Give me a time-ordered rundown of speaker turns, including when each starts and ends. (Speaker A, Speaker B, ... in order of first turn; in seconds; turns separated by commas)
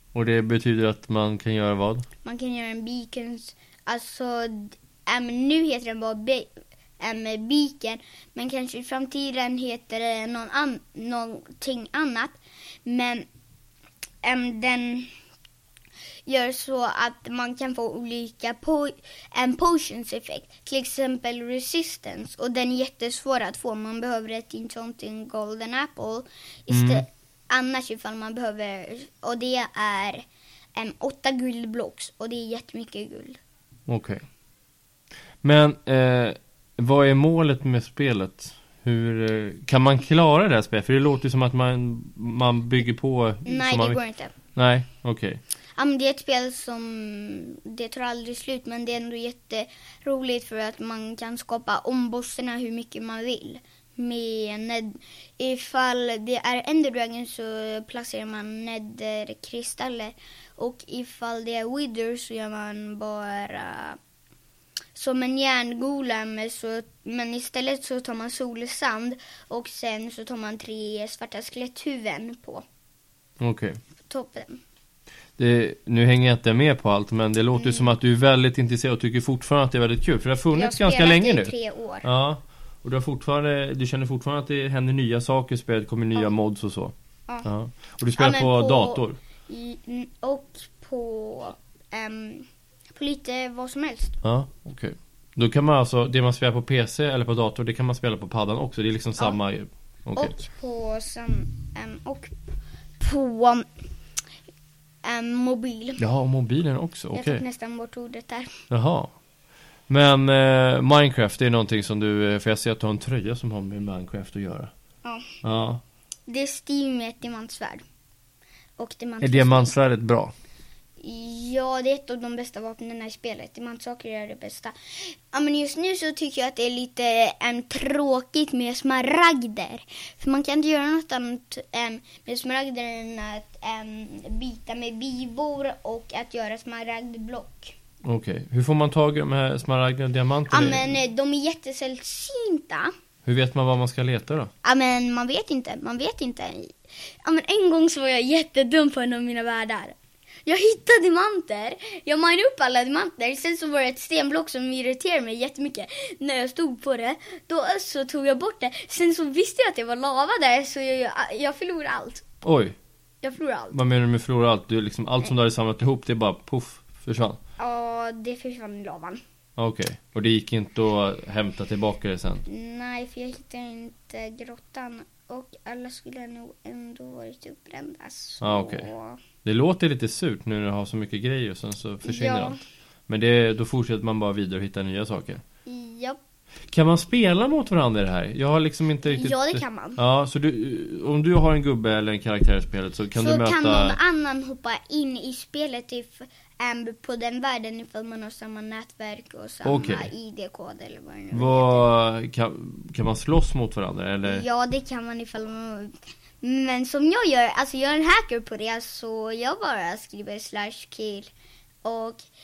Speaker A: 0.1-2.1, Speaker B: 2.2-13.3, Speaker B: 14.2-15.1, Speaker B: 16.3-30.2, Speaker A: 26.7-27.0, Speaker B: 30.8-33.4, Speaker A: 33.9-34.2, Speaker A: 35.4-44.0, Speaker B: 43.5-44.3, Speaker A: 44.5-45.4, Speaker B: 45.8-64.0, Speaker B: 65.0-72.6, Speaker A: 73.4-73.8, Speaker B: 74.1-74.6, Speaker A: 75.4-86.9, Speaker B: 77.5-78.0, Speaker B: 80.5-82.1, Speaker A: 87.4-89.2, Speaker B: 88.2-94.2, Speaker A: 94.2-100.3, Speaker B: 100.2-102.3, Speaker B: 103.0-103.7, Speaker B: 105.0-106.0, Speaker A: 106.0-107.4, Speaker B: 107.1-108.6, Speaker A: 108.7-109.1, Speaker A: 109.9-114.7, Speaker B: 115.0-115.3, Speaker A: 115.4-115.8, Speaker B: 116.3-117.8, Speaker B: 118.8-119.7, Speaker A: 119.2-120.3, Speaker B: 121.0-137.8, Speaker A: 138.0-140.9, Speaker B: 140.5-142.9, Speaker A: 143.2-144.5, Speaker B: 144.6-162.2, Speaker A: 162.4-162.8, Speaker B: 163.2-163.8, Speaker A: 163.7-167.4, Speaker B: 167.6-169.2, Speaker A: 169.6-172.4, Speaker B: 172.5-179.2, Speaker A: 178.4-178.9, Speaker A: 179.4-185.4, Speaker B: 182.1-182.6, Speaker B: 185.7-186.2, Speaker A: 186.7-194.0, Speaker B: 189.0-190.0, Speaker B: 193.1-201.9, Speaker A: 199.6-200.1, Speaker A: 201.3-204.5, Speaker B: 204.2-211.3, Speaker B: 211.8-212.2